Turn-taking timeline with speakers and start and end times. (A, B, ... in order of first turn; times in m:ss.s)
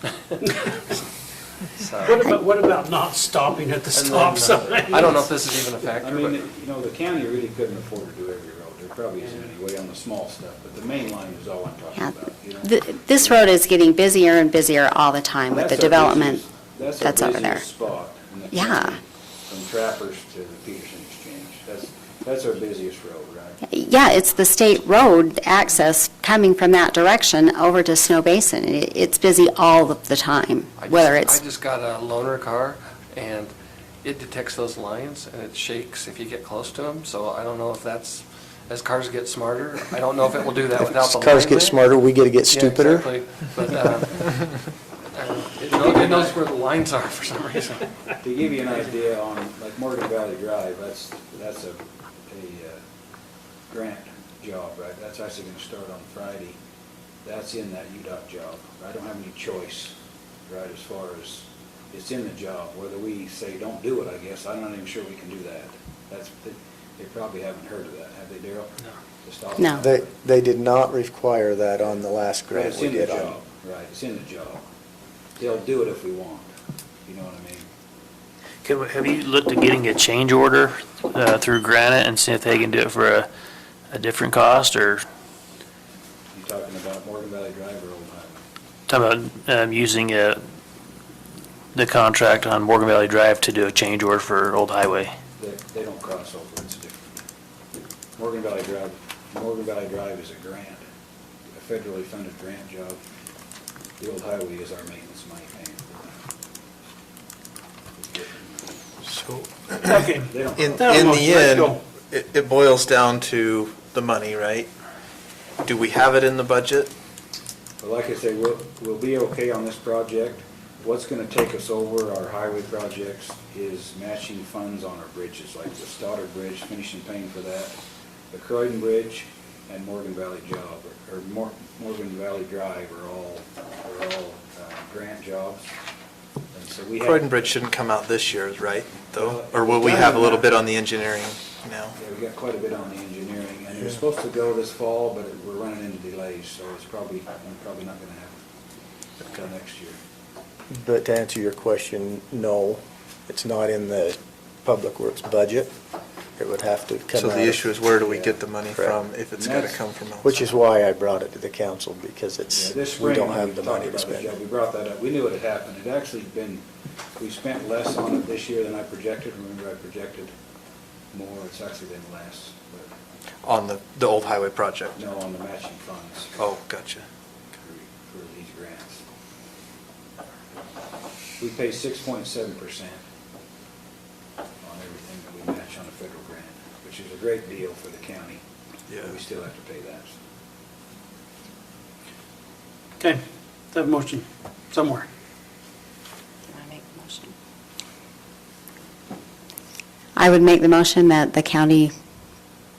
0:00.5-0:00.7 A
0:01.8-0:02.2 B
0:02.0-0:05.3 A
0:03.9-0:06.4 B
0:06.0-0:13.5 C
0:12.0-0:16.4 D
0:15.5-0:23.6 C
0:17.0-0:17.6 D
0:18.5-0:19.0 D
0:23.7-0:31.4 D
0:30.8-0:41.8 B
0:40.8-0:43.1 E
0:42.5-0:44.6 B
0:45.1-0:48.0 B
0:45.7-0:46.4 C
0:48.2-0:52.8 C
0:53.7-0:56.6 C
0:57.2-1:00.0 C
1:00.5-1:10.2 C
1:09.6-1:09.8 D
1:09.8-1:13.4 E
1:12.5-1:14.6 C
1:15.4-1:16.5 C
1:17.1-1:17.7 C
1:18.6-1:23.3 F
1:23.9-1:25.0 F
1:26.3-1:28.4 C
1:28.9-1:30.4 F
1:31.7-1:35.1 F
1:35.4-1:37.2 C
1:38.2-1:40.8 C
1:41.5-1:43.0 C
1:44.0-1:46.2 C
1:48.0-1:48.8 C
1:49.4-1:50.0 G
1:49.8-1:51.8 A
1:50.2-1:50.9 C
1:50.6-1:54.7 G
1:55.6-1:56.9 G
1:57.8-2:07.8 C
2:08.3-2:15.6 C
2:16.5-2:17.7 C
2:17.0-2:21.9 G
2:19.1-2:20.7 C
2:21.9-2:28.4 C
2:29.3-2:30.0 C
2:30.7-2:35.7 E
2:36.4-2:38.0 E
2:37.2-2:40.2 G
2:38.0-2:38.4 C
2:38.7-2:39.0 E
2:39.3-2:39.8 C
2:40.2-2:44.4 E
2:42.5-2:46.6 C
2:47.2-2:50.3 C
2:51.1-2:52.9 C
2:53.4-2:55.0 G
2:55.0-2:56.5 C
2:56.4-2:57.0 G
2:57.6-2:59.0 C
3:01.4-3:03.0 C
3:04.6-3:08.4 C
3:09.0-3:10.2 C
3:13.7-3:15.1 A
3:16.5-3:17.3 D
3:20.2-3:21.9 D